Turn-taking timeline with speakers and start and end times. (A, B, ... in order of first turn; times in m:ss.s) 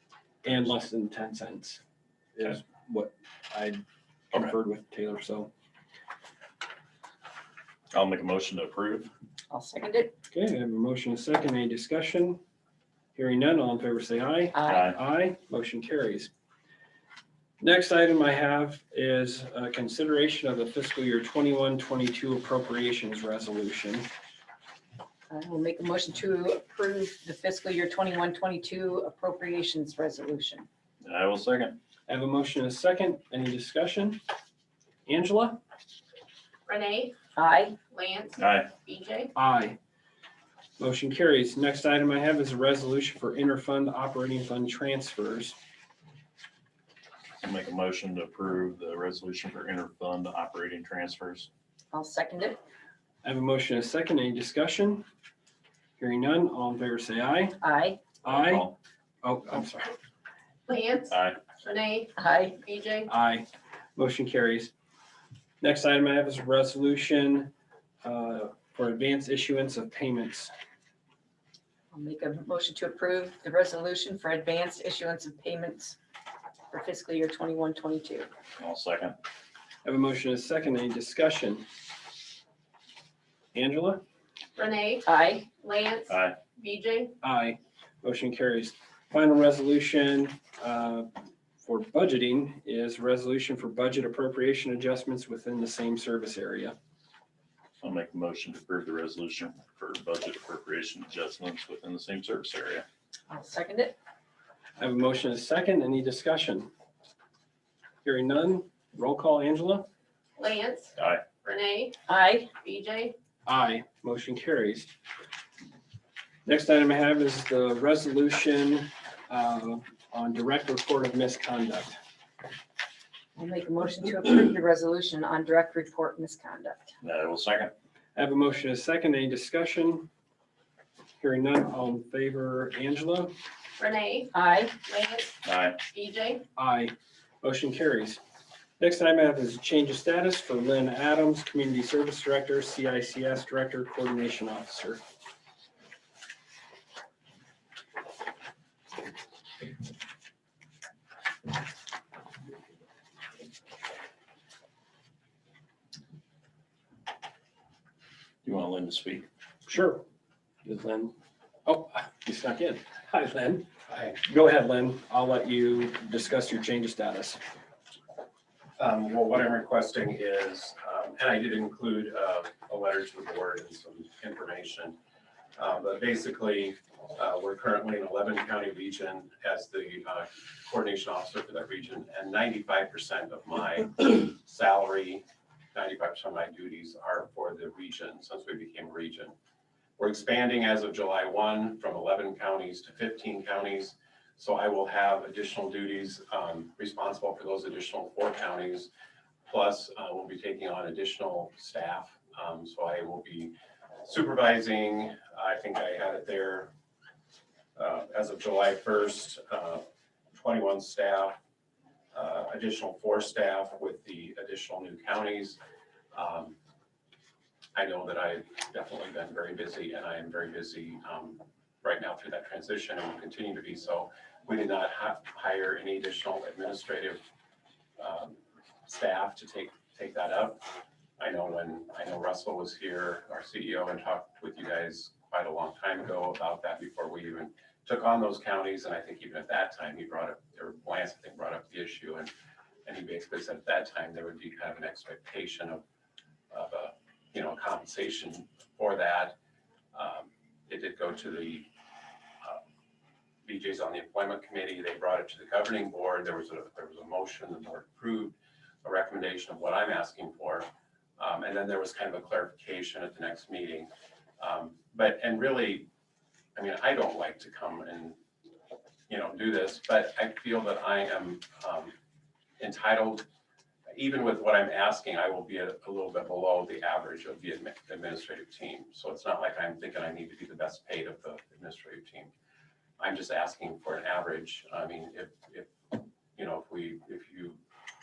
0:00.4-0:01.8 A
0:00.5-0:00.8 B
0:02.4-0:05.5 A
0:07.9-0:09.1 B
0:09.5-0:10.2 C
0:10.3-0:12.4 A
0:13.2-0:16.3 A
0:14.5-0:14.9 C
0:14.6-0:15.0 B
0:17.6-0:24.0 A
0:25.3-0:30.7 C
0:31.0-0:31.8 B
0:32.1-0:34.2 A
0:35.0-0:35.6 A
0:36.7-0:37.1 D
0:37.4-0:37.8 C
0:37.9-0:39.3 D
0:38.4-0:38.7 B
0:39.4-0:39.8 A
0:40.8-0:45.6 A
0:47.4-0:51.5 B
0:51.9-0:52.6 C
0:53.2-0:55.0 A
0:56.0-0:57.6 A
0:57.6-0:58.0 C
0:58.2-0:58.7 A
0:58.3-0:58.8 B
0:59.2-0:59.9 A
1:00.7-1:02.1 D
1:01.1-1:01.4 B
1:02.2-1:02.6 C
1:02.6-1:03.1 D
1:03.1-1:04.7 A
1:05.6-1:07.5 A
1:08.0-1:10.5 A
1:11.9-1:16.0 C
1:16.7-1:18.3 C
1:18.6-1:19.2 B
1:19.8-1:21.7 A
1:23.5-1:24.0 A
1:24.6-1:25.0 D
1:25.0-1:25.5 C
1:25.6-1:27.1 D
1:26.1-1:26.4 B
1:27.2-1:31.1 A
1:31.6-1:36.8 A
1:37.8-1:42.8 B
1:43.3-1:44.0 C
1:44.8-1:46.7 A
1:48.0-1:49.9 A
1:50.4-1:51.9 D
1:51.0-1:51.2 B
1:52.1-1:52.5 C
1:52.6-1:53.1 D
1:53.4-1:54.9 A
1:56.4-2:02.0 A
2:03.4-2:06.9 C
2:07.0-2:07.7 B
2:08.1-2:10.1 A
2:11.2-2:13.3 A
2:13.8-2:14.3 D
2:14.3-2:14.8 C
2:14.8-2:15.3 D
2:15.4-2:15.8 B
2:15.9-2:16.4 D
2:16.6-2:18.2 A
2:18.8-2:25.0 A
2:38.4-2:39.2 B
2:39.7-2:40.0 A
2:40.6-2:41.1 A
2:41.6-2:43.7 A
2:43.9-2:44.2 E
2:44.2-2:47.4 A
2:48.8-2:55.0 E
2:55.6-3:09.3 E
3:10.0-3:18.9 E
3:19.5-3:26.7 E
3:27.8-3:31.4 E
3:32.1-3:35.6 E
3:36.1-3:36.6 E
3:37.8-3:47.2 E
3:48.0-3:50.6 E
3:51.2-4:02.3 E
4:02.8-4:05.8 E
4:06.5-4:09.4 E
4:09.9-4:11.7 E
4:13.4-4:25.9 E
4:26.6-4:28.2 E
4:29.1-4:31.9 E
4:32.6-4:33.2 E
4:33.9-4:42.3 E
4:43.0-4:47.6 E